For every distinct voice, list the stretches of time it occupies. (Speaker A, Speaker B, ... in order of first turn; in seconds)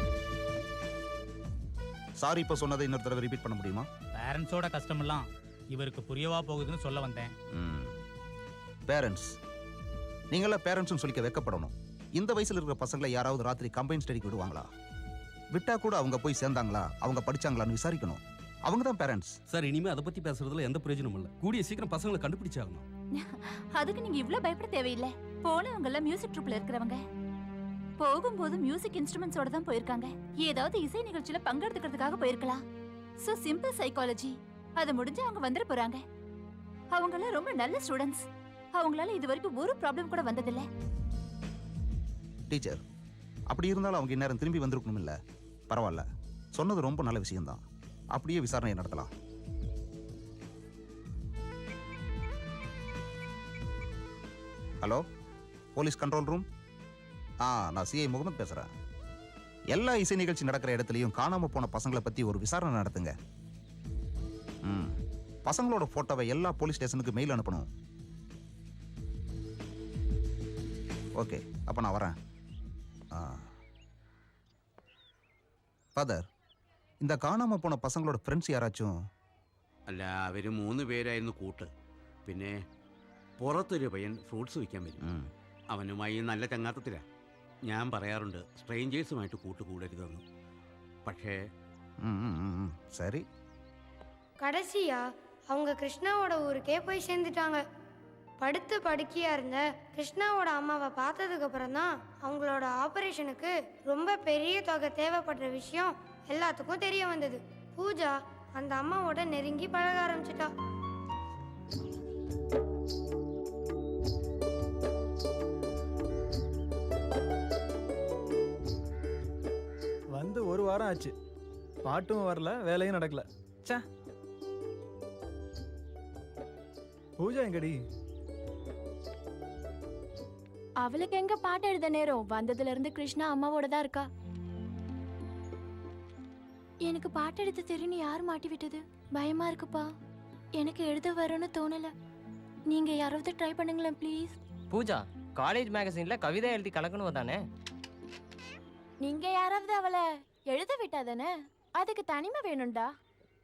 Speaker A: 2.2-3.9, 7.5-7.9, 8.9-9.3, 10.3-14.7, 15.5-19.3, 42.5-42.8, 43.5-45.1, 45.7-47.6, 48.1-49.1, 55.7-56.4, 57.4-58.7, 59.7-63.1, 64.6-64.9, 65.5-67.7, 71.2-72.1, 73.1-73.5, 76.0-76.2, 77.0-78.9, 85.0-85.3, 92.0-93.2
Speaker B: 4.2-7.3
Speaker C: 19.5-22.8
Speaker D: 23.2-27.0, 28.0-32.6, 33.2-36.0, 36.9-40.6
Speaker E: 79.9-81.7, 82.2-82.5, 83.4-85.0, 85.7-87.0, 87.7-90.2, 91.0-91.3
Speaker F: 94.4-97.6, 98.4-110.5
Speaker G: 120.1-121.1, 121.8-123.8, 127.2-127.8
Speaker H: 130.8-134.1, 136.8-139.8, 140.6-141.9, 142.7-144.3, 149.0-152.9
Speaker I: 144.7-147.4